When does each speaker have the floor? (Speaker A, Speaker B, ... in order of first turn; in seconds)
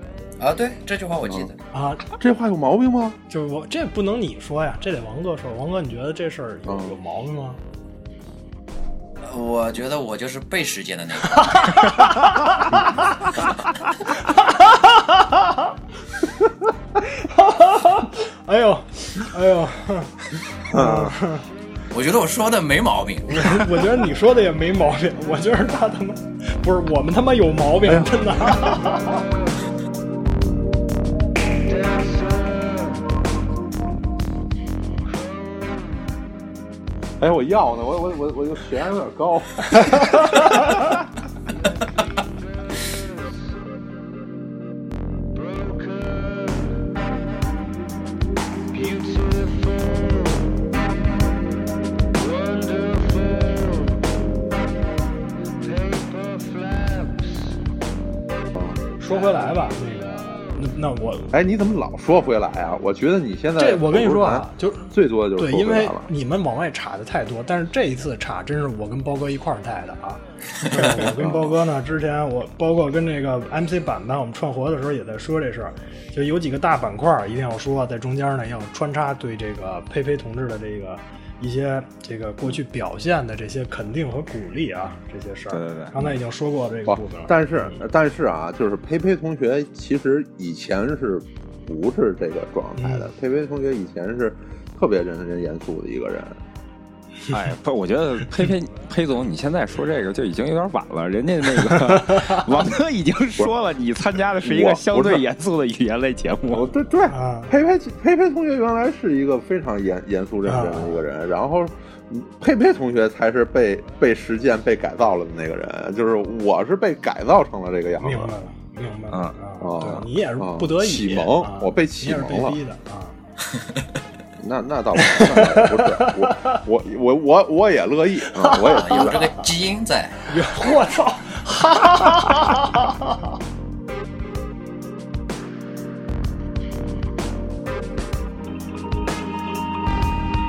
Speaker A: 0.4-1.6, 9.2-11.9, 21.9-23.7, 128.7-130.3
Speaker B: 1.7-2.0, 3.3-7.6, 11.4-12.8, 14.2-15.7, 17.1-21.4, 23.3-29.2, 59.0-61.3, 63.6-87.8, 92.8-93.1, 107.1-107.5, 110.5-111.0, 118.0-123.2, 125.0-126.6, 128.3-129.2, 130.3-133.1
Speaker C: 2.1-3.2, 6.7-7.0, 20.7-21.2, 27.9-28.2, 37.2-40.3, 58.5-58.8, 61.3-66.1, 71.2-71.5, 86.9-96.4, 104.4-105.2, 106.5-118.3, 119.6-122.6, 124.4-129.3
Speaker D: 85.5-86.0, 97.3-106.7